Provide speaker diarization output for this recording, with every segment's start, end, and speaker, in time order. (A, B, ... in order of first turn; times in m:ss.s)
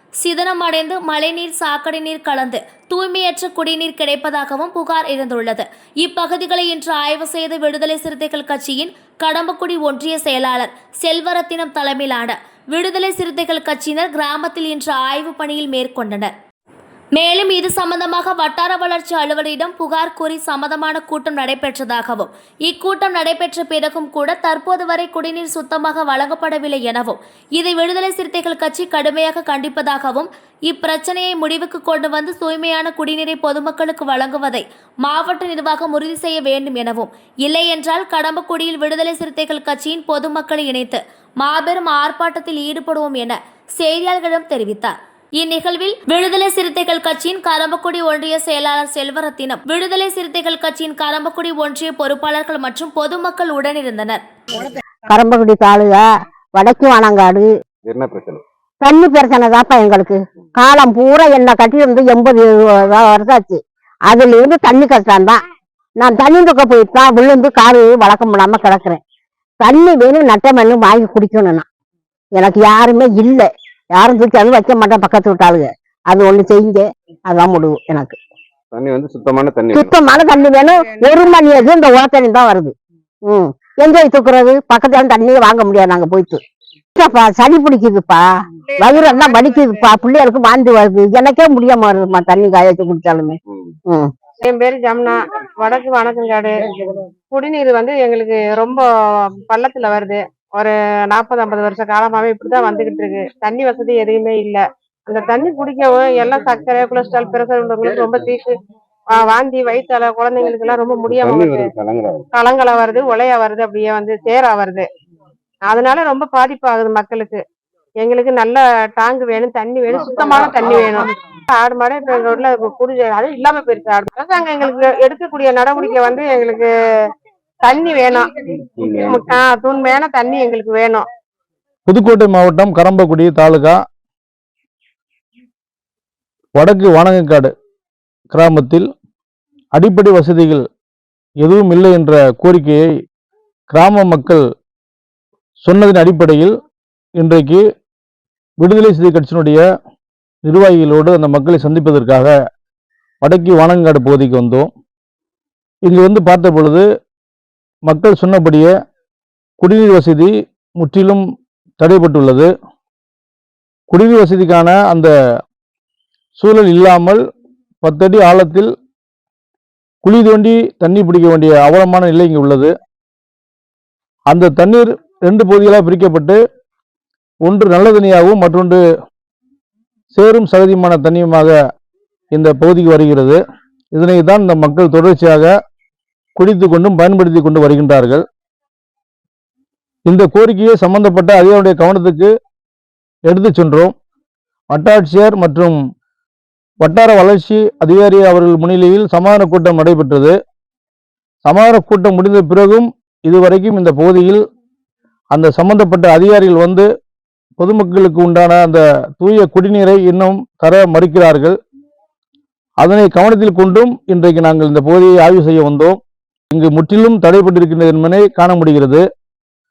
0:00.2-0:16.3 A
0:17.1-0:54.2 A
0:54.6-0:56.0 B
0:56.6-0:57.5 B
0:57.8-0:58.4 C
0:58.8-1:05.4 B
1:06.0-1:09.0 B
1:09.6-1:11.6 B
1:12.4-1:18.2 B
1:18.7-1:19.9 C
1:19.7-1:22.7 B
1:23.3-1:26.4 B
1:27.0-1:28.2 B
1:28.8-1:34.1 B
1:33.5-1:33.8 C
1:34.4-1:36.5 D
1:37.3-1:38.8 D
1:39.4-1:48.5 D
1:48.0-1:48.3 C
1:49.2-1:51.6 D
1:51.1-1:52.3 C
1:52.3-1:54.8 D
1:55.7-1:57.4 D
1:58.0-2:06.7 D
2:00.4-2:00.7 C
2:07.6-2:08.3 D
2:08.8-2:09.3 C
2:09.0-2:11.0 D
2:11.9-2:13.8 E
2:16.5-2:17.5 E
2:18.3-2:18.9 E
2:19.8-2:20.6 E
2:21.4-2:22.8 E
2:23.7-2:24.4 E
2:25.6-2:26.5 E
2:27.2-2:27.6 E
2:28.6-2:29.6 E
2:30.4-2:32.3 E
2:33.2-2:34.7 E
2:35.8-2:36.8 E
2:37.8-2:38.7 E
2:39.6-2:41.2 E
2:41.8-2:42.5 E
2:43.9-2:45.1 E
2:46.4-2:47.2 E
2:47.8-2:48.7 E
2:50.0-2:52.7 E
2:54.3-2:56.4 E
2:57.4-2:58.8 E
3:00.1-3:01.6 E
3:02.3-3:03.4 E
3:03.9-3:05.5 E
3:06.4-3:08.2 E
3:10.1-3:12.3 E
3:13.3-3:14.0 E
3:14.7-3:15.8 E
3:16.8-3:20.4 E
3:21.4-3:24.4 E
3:25.3-3:26.9 E
3:27.6-3:31.6 E
3:32.8-3:36.0 E
3:36.5-3:39.0 E